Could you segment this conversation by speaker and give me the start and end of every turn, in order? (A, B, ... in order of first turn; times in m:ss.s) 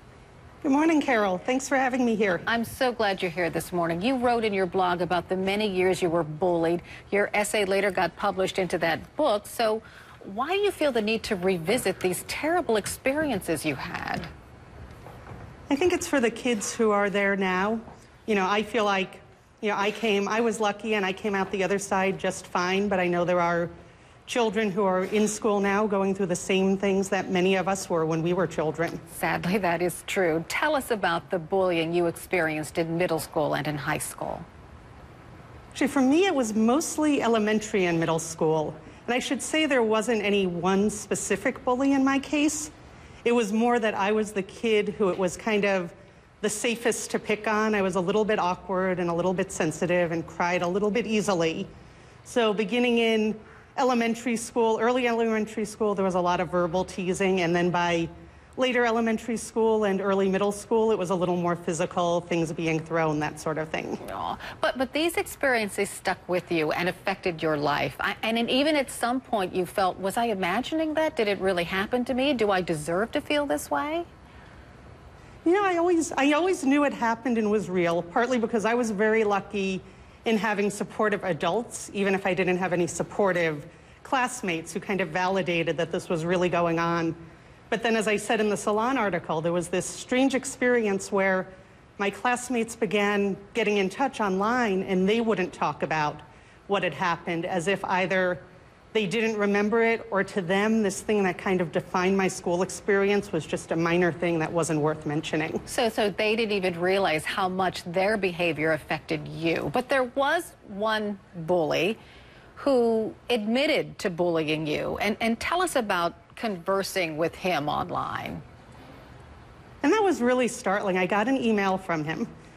0:00.6-0:02.5 A
0:02.4-0:14.3 B
0:15.7-0:23.7 A
0:24.3-0:29.0 A
0:29.1-0:34.4 B
0:35.7-0:42.7 A
0:43.2-0:51.7 A
0:52.2-1:04.0 A
1:04.0-1:14.1 B
1:15.4-1:27.2 A
1:27.7-1:45.6 A
1:45.6-1:52.0 B
1:52.6-1:58.4 B
1:59.8-2:02.3 A